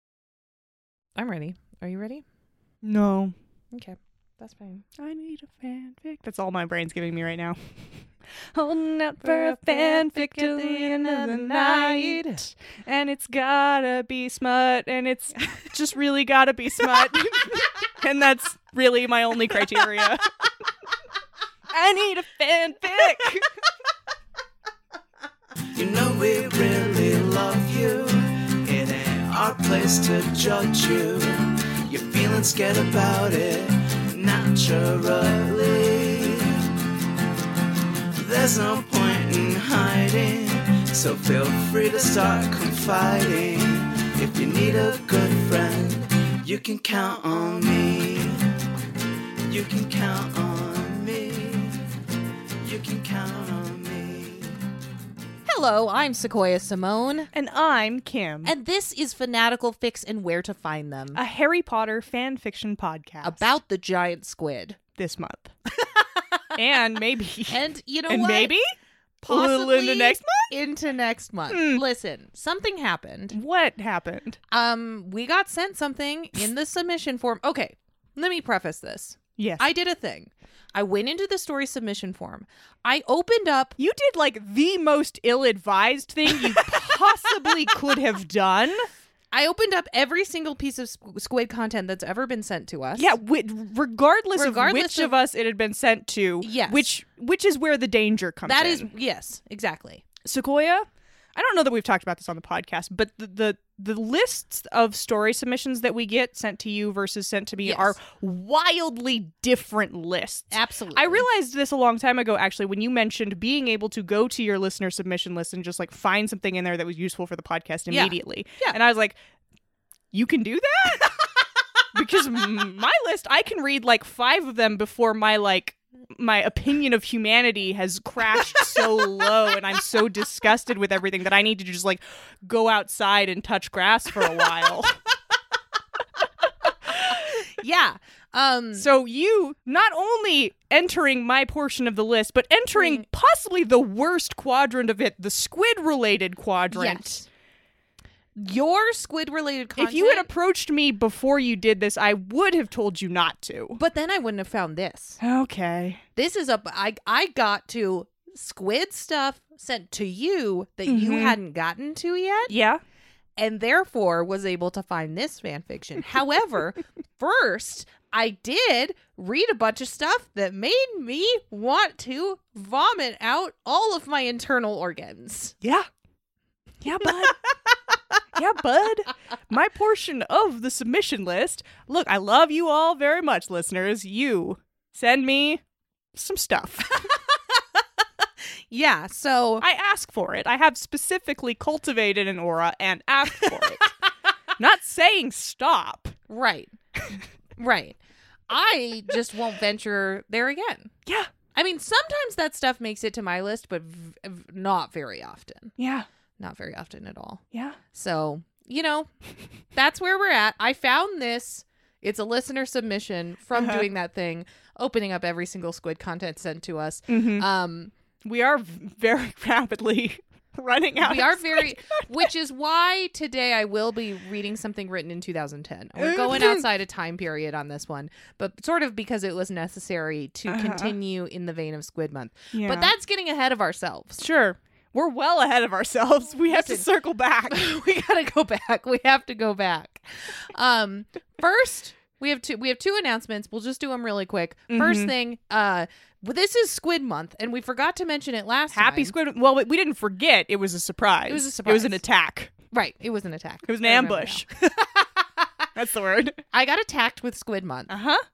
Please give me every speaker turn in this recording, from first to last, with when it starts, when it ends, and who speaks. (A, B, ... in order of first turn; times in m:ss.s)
0:01.2-0:02.2 A
0:02.8-0:03.3 B
0:03.7-0:04.8 A
0:05.0-0:20.3 B
0:09.2-0:12.4 A
0:21.7-0:23.5 B
0:25.7-0:36.6 C
0:38.1-0:48.5 C
0:49.5-0:51.8 C
0:52.6-0:54.6 C
0:55.4-0:57.3 A
0:57.3-0:58.5 B
0:58.4-1:01.2 A
1:01.1-1:03.5 B
1:03.2-1:04.8 A
1:05.0-1:05.5 B
1:05.7-1:06.6 A
1:06.5-1:08.6 B
1:07.5-1:08.5 A
1:09.2-1:13.4 A
1:09.3-1:10.4 B
1:11.5-1:11.8 B
1:13.3-1:14.4 B
1:14.5-1:23.8 A
1:19.4-1:19.6 B
1:23.8-1:28.9 B
1:29.3-1:33.2 A
1:33.0-1:38.9 B
1:34.4-1:35.1 A
1:36.4-1:36.9 A
1:38.4-1:40.0 A
1:40.2-1:59.2 B
1:47.6-1:48.0 A
1:50.5-1:51.2 A
1:57.9-1:58.8 A
2:00.1-2:01.3 B
2:01.9-2:15.0 B
2:16.9-2:18.9 A
2:18.7-2:27.2 B
2:26.7-2:27.2 A
2:28.4-2:30.3 A
2:29.8-2:33.8 B
2:33.8-2:35.2 A
2:35.2-2:36.0 B
2:36.2-2:42.5 A
2:40.9-2:41.4 B
2:42.5-2:42.8 B
2:43.4-2:55.6 A
2:55.6-2:55.9 B
2:56.8-2:57.4 B
2:58.3-3:05.6 B
3:06.1-3:07.1 B
3:07.2-3:07.6 A
3:08.7-3:09.6 A
3:09.6-3:13.9 B
3:14.6-3:16.2 B
3:16.3-3:16.7 A
3:17.6-3:18.0 A
3:18.5-3:20.9 A
3:21.5-3:25.7 A
3:25.8-3:26.1 B
3:26.4-3:29.1 A
3:27.5-3:27.8 B
3:29.7-3:37.9 A
3:33.5-3:33.8 B
3:37.1-3:37.5 B
3:38.2-3:42.3 B
3:41.0-3:54.2 A
3:46.0-3:46.6 B
3:50.5-3:50.9 B
3:52.5-3:52.9 B
3:54.2-3:57.6 B
3:56.5-3:56.9 A
3:57.5-4:09.1 A
4:04.7-4:05.1 B
4:08.7-4:12.5 B
4:11.3-4:12.0 A
4:12.7-4:15.6 A
4:13.6-4:14.5 B
4:15.7-4:16.4 B
4:16.5-4:17.9 A
4:17.9-4:18.2 B